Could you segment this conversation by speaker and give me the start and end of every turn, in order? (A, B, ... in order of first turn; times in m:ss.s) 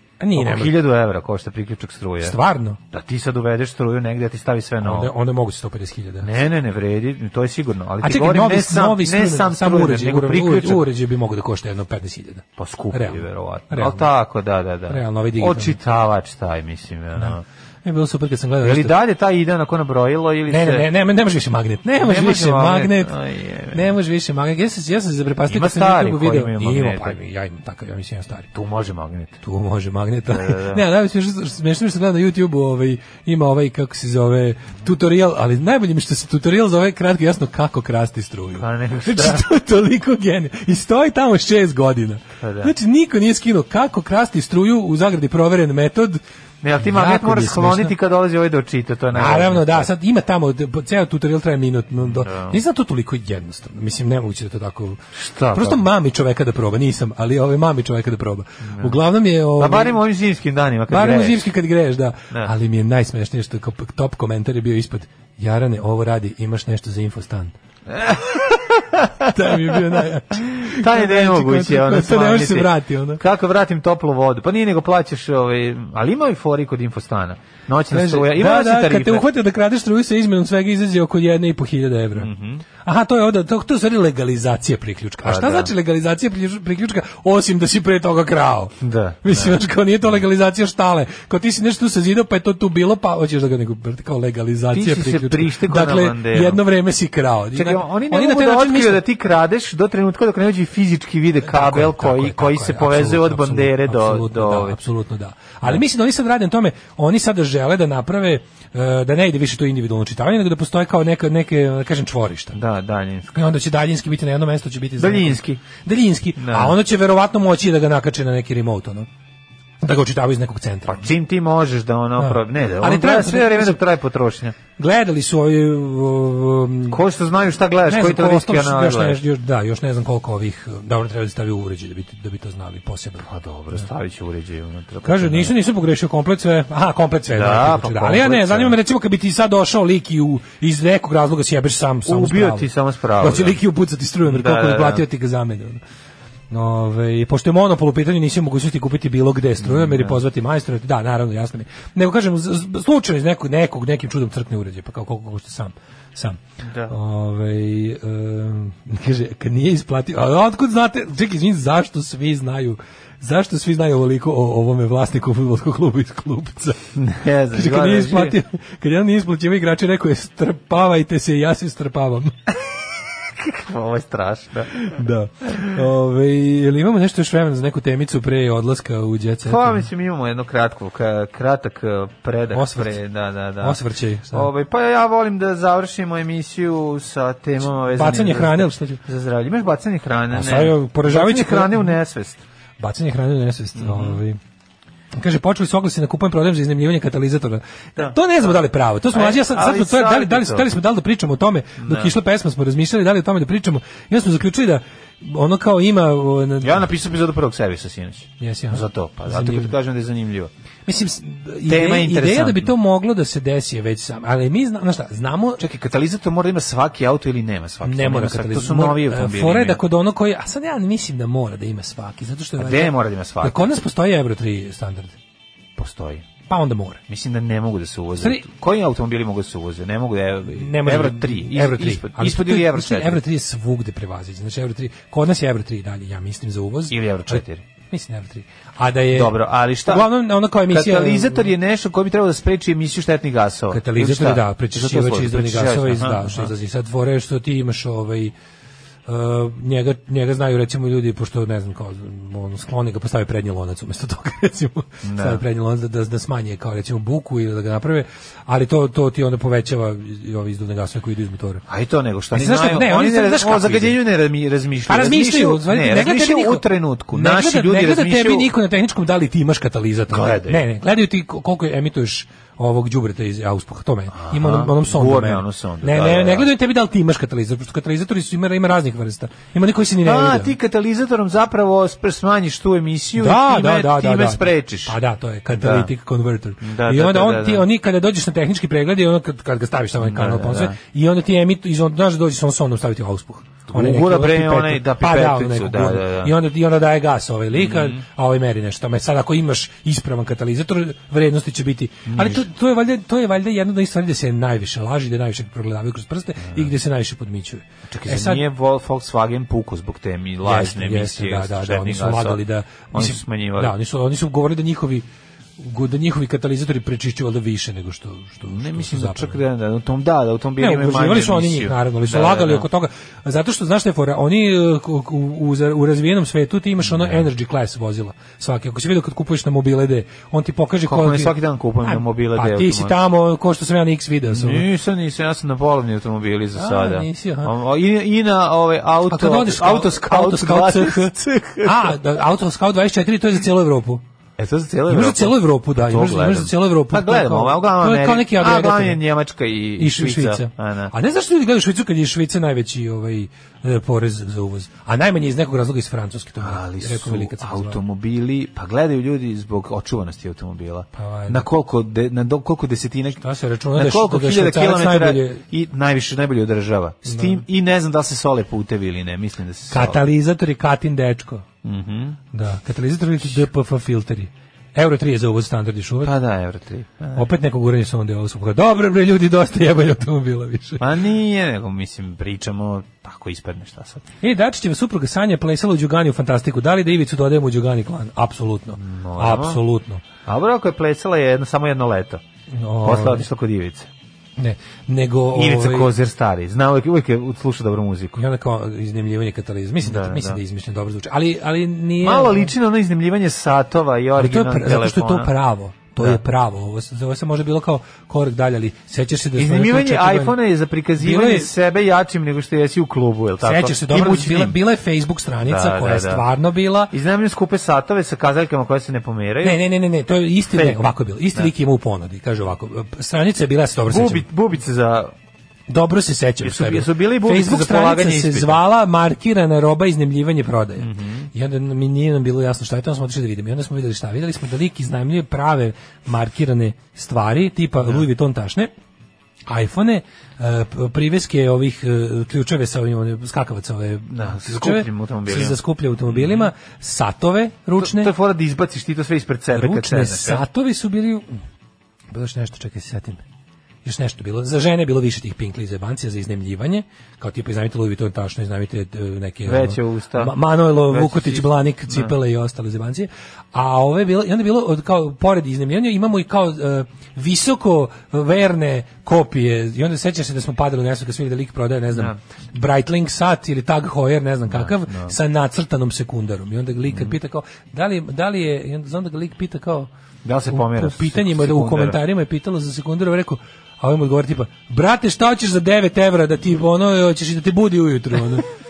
0:00.2-0:00.8 A
0:00.4-0:02.4 B
0:02.2-0:02.8 A
0:02.9-0:05.1 B
0:04.8-0:06.3 A
0:06.2-0:10.8 B
0:08.0-0:14.1 A
0:12.6-0:17.4 B
0:14.9-0:15.8 A
0:17.8-0:18.9 A
0:18.6-0:20.9 B
0:20.5-0:23.1 A
0:22.0-0:23.9 B
0:23.7-0:28.5 A
0:25.5-0:27.2 B
0:28.5-0:29.4 B
0:29.4-0:46.2 A
0:30.3-0:30.8 B
0:38.6-0:39.4 B
0:42.4-0:42.7 B
0:46.6-0:49.9 B
0:46.8-0:47.9 A
0:49.1-0:55.0 A
0:52.0-0:52.6 B
0:55.1-0:55.8 B
0:55.5-1:00.0 A
0:58.6-0:59.0 B
0:59.6-1:01.4 B
1:00.9-1:07.5 A
1:07.9-1:19.3 B
1:09.3-1:13.2 A
1:17.9-1:22.3 A
1:22.2-1:22.6 B
1:22.8-1:39.0 A
1:25.2-1:25.7 B
1:28.8-1:29.6 B
1:34.7-1:36.6 B
1:37.5-1:44.8 B
1:41.4-1:52.6 A
1:52.6-1:53.4 B
1:53.3-1:59.1 A
1:55.0-1:55.6 B
1:56.4-1:56.8 B
1:59.8-2:01.1 A
2:00.9-2:04.6 B
2:02.2-2:03.8 A
2:04.8-2:07.0 A
2:06.9-2:09.2 B
2:07.9-2:13.3 A
2:13.2-2:15.5 B
2:15.0-2:22.7 A
2:17.3-2:18.8 B
2:22.1-2:23.6 B
2:23.2-2:25.8 A
2:24.3-2:25.0 B
2:26.5-2:46.8 A
2:29.6-2:30.2 B
2:36.6-2:37.0 B
2:47.0-2:48.4 B
2:47.5-2:52.3 A
2:53.3-2:54.9 B
2:54.8-2:59.9 A
2:59.4-3:03.8 B
3:02.5-3:03.0 A
3:03.6-3:04.5 A
3:04.3-3:12.4 B
3:07.7-3:09.0 A
3:10.3-3:12.0 A
3:12.8-3:14.4 A
3:13.8-3:14.2 B
3:15.1-3:26.9 A
3:18.0-3:18.5 B
3:19.1-3:20.7 B
3:21.8-3:22.1 B
3:26.6-3:30.5 B
3:28.4-3:29.8 A
3:30.9-3:35.6 A
3:31.7-3:32.7 B
3:35.6-3:39.8 B
3:37.8-3:45.2 A
3:42.6-3:43.7 B
3:45.8-3:46.3 B
3:46.5-3:47.0 A
3:47.1-3:53.2 B
3:50.5-4:01.5 A
3:56.9-3:57.6 B
3:59.1-4:00.1 B
4:00.7-4:06.5 B
4:03.7-4:08.3 A
4:09.1-4:21.6 A
4:15.0-4:15.4 B
4:21.7-4:28.5 B
4:22.3-4:24.0 A
4:24.9-4:40.5 A
4:30.1-4:30.6 B
4:34.1-4:36.5 B
4:40.0-4:45.0 B
4:43.2-5:08.4 A
4:45.5-4:45.9 B
4:46.6-4:47.6 B
4:50.0-4:50.8 B
4:53.7-4:56.3 B
4:57.5-4:58.0 B
5:02.1-5:02.4 B
5:06.4-5:06.7 B
5:07.9-5:13.7 B
5:10.4-5:15.1 A
5:15.6-5:19.4 A
5:18.5-5:22.7 B
5:20.6-5:34.7 A
5:26.8-5:27.2 B
5:30.9-5:33.0 B
5:34.3-5:42.0 B
5:36.6-5:37.5 A
5:39.1-5:44.0 A
5:44.4-5:50.9 B
5:44.9-5:49.0 A
5:49.8-5:57.8 A
5:56.4-6:03.2 B
6:01.0-6:01.5 A
6:03.2-6:05.4 A
6:03.8-6:10.0 B
6:07.1-6:07.4 A
6:09.7-6:11.4 A
6:11.6-6:12.2 B
6:12.3-6:16.2 A
6:16.0-6:17.2 B
6:17.2-6:20.8 A
6:20.8-6:24.0 B
6:24.2-6:30.0 A
6:28.8-6:29.6 B
6:30.2-6:32.2 B
6:32.5-6:33.3 A
6:32.8-6:33.9 B
6:34.4-6:35.9 A
6:35.3-6:38.2 B
6:38.2-6:42.5 A
6:39.8-6:40.4 B
6:42.0-6:45.3 B
6:44.2-6:50.4 A
6:49.4-6:54.6 B
6:51.0-6:51.5 A
6:53.4-6:56.9 A
6:55.4-6:56.2 B
6:56.9-6:59.6 B
6:59.4-7:04.3 A
7:00.5-7:01.5 B
7:03.9-7:05.1 B
7:05.7-7:18.7 A
7:06.4-7:08.6 B
7:10.8-7:11.3 B
7:19.5-7:28.1 A
7:24.1-7:26.5 B
7:27.8-7:30.4 B
7:29.5-7:31.4 A
7:32.1-7:33.2 A
7:33.8-7:59.9 A
7:39.4-7:42.1 B
7:54.5-7:55.2 B
7:56.9-7:57.2 B
8:00.2-8:02.0 B
8:00.5-8:08.5 A